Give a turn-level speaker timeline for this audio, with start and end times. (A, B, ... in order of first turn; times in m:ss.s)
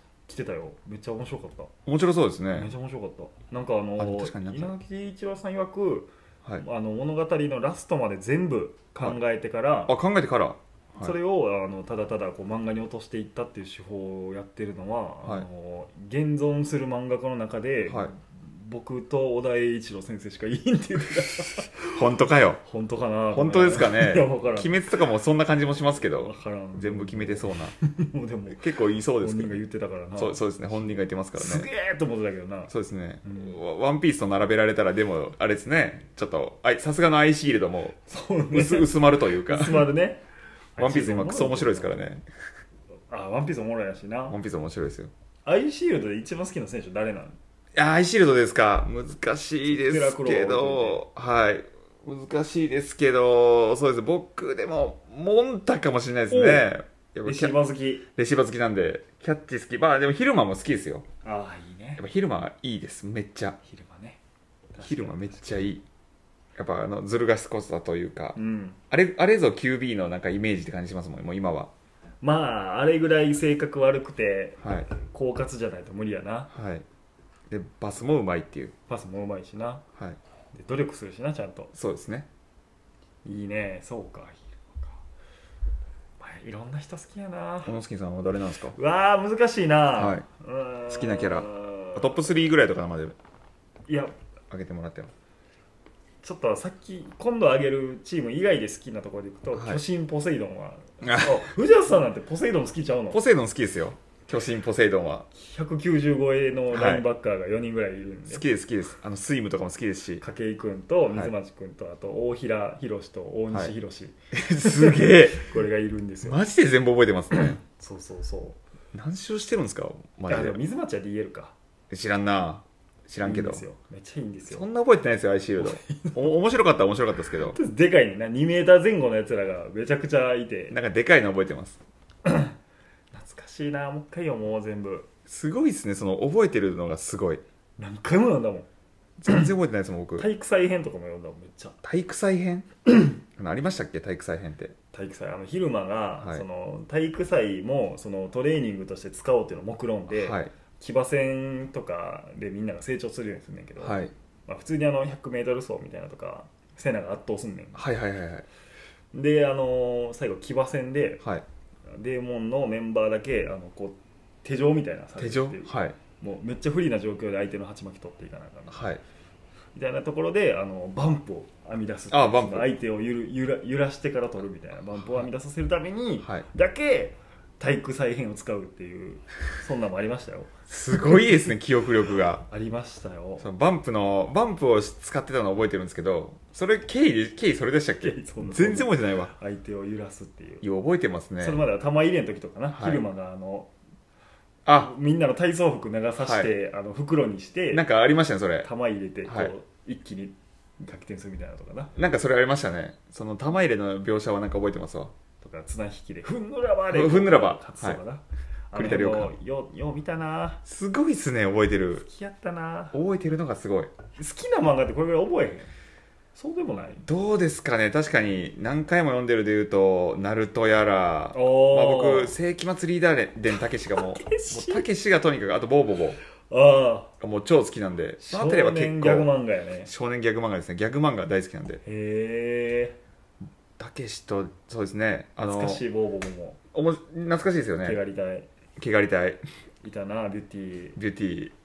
0:00.3-0:01.7 A
0:01.9-0:02.7 B
0:02.5-0:10.0 A
0:04.0-0:04.8 B
0:09.9-0:11.1 B
0:11.0-0:22.0 A
0:17.9-0:18.1 B
0:21.9-0:22.6 B
0:22.6-0:24.7 A
0:23.3-0:27.8 B
0:26.2-0:28.6 A
0:28.5-0:29.6 B
0:29.2-0:32.7 A
0:30.2-0:31.7 B
0:32.7-0:38.0 B
0:33.2-0:33.6 A
0:38.1-0:40.2 A
0:38.5-0:39.9 B
0:40.8-0:41.9 A
0:40.8-0:42.2 B
0:43.1-0:44.4 A
0:44.3-0:45.1 B
0:45.4-0:47.4 A
0:47.8-0:57.6 B
0:49.6-0:51.0 A
0:56.3-0:56.7 A
0:57.2-0:58.0 A
0:58.2-1:01.1 B
1:01.2-1:02.0 A
1:02.0-1:03.6 B
1:03.6-1:04.2 A
1:04.7-1:05.7 A
1:04.8-1:05.8 B
1:06.6-1:08.4 B
1:08.4-1:08.8 A
1:08.9-1:11.7 B
1:12.2-1:16.5 A
1:14.6-1:14.9 B
1:16.5-1:16.8 B
1:17.5-1:18.7 B
1:18.9-1:19.8 A
1:20.5-1:21.7 A
1:21.7-1:22.3 B
1:23.2-1:25.0 A
1:26.2-1:27.8 A
1:27.6-1:28.8 B
1:28.8-1:32.2 A
1:29.9-1:30.2 B
1:30.9-1:33.2 B
1:33.9-1:34.1 A
1:34.5-1:35.1 B
1:36.2-1:43.2 A
1:39.5-1:39.8 B
1:41.0-1:41.5 B
1:43.1-1:45.3 B
1:45.3-1:48.4 A
1:46.7-1:47.1 B
1:48.3-1:50.2 B
1:50.2-1:56.4 A
1:54.3-1:55.5 B
1:56.2-1:57.6 B
1:57.3-1:58.6 A
1:58.9-2:00.6 B
2:00.3-2:01.5 A
2:01.9-2:03.6 B
2:03.2-2:04.6 A
2:04.5-2:07.6 B
2:05.6-2:06.3 A
2:07.4-2:10.8 A
2:10.7-2:11.8 B
2:12.2-2:12.6 A
2:13.1-2:15.1 A
2:15.3-2:17.4 B
2:17.8-2:18.7 A
2:19.2-2:20.3 B
2:20.2-2:21.8 A
2:21.8-2:22.7 B
2:23.3-2:24.8 B
2:24.9-2:37.8 A
2:30.1-2:30.5 B
2:33.8-2:34.1 B
2:37.8-2:38.5 B
2:39.1-2:41.2 A
2:41.9-2:48.8 A
2:45.2-2:46.0 B
2:48.7-2:49.0 B
2:49.8-3:00.5 A
2:52.1-2:52.7 B
3:00.7-3:02.5 B
3:02.5-3:03.5 A
3:03.4-3:09.3 B
3:08.0-3:10.6 A
3:10.6-3:11.6 B
3:11.4-3:13.7 A
3:12.7-3:13.0 B
3:14.6-3:14.9 B
3:14.7-3:17.9 A
3:16.2-3:16.5 B
3:17.7-3:18.7 B
3:18.6-3:21.9 A
3:19.2-3:19.5 B
3:22.0-3:25.1 B
3:25.4-3:30.6 A
3:26.9-3:28.0 B
3:28.7-3:29.4 B
3:30.6-3:32.1 B
3:32.0-3:33.0 A
3:32.9-3:33.9 B
3:34.1-3:35.7 A
3:36.4-3:37.0 A
3:37.0-3:46.2 B
3:41.3-3:42.4 A
3:44.0-3:44.9 A
3:46.5-3:47.1 A
3:47.2-3:49.3 B
3:48.2-3:49.9 A
3:49.9-3:51.8 B
3:51.8-3:53.0 A
3:53.8-3:55.8 B
3:55.4-3:56.6 A
3:56.7-3:58.0 B
3:57.8-3:58.5 A
3:58.8-3:59.4 B
3:59.8-4:01.0 A
4:01.0-4:01.6 B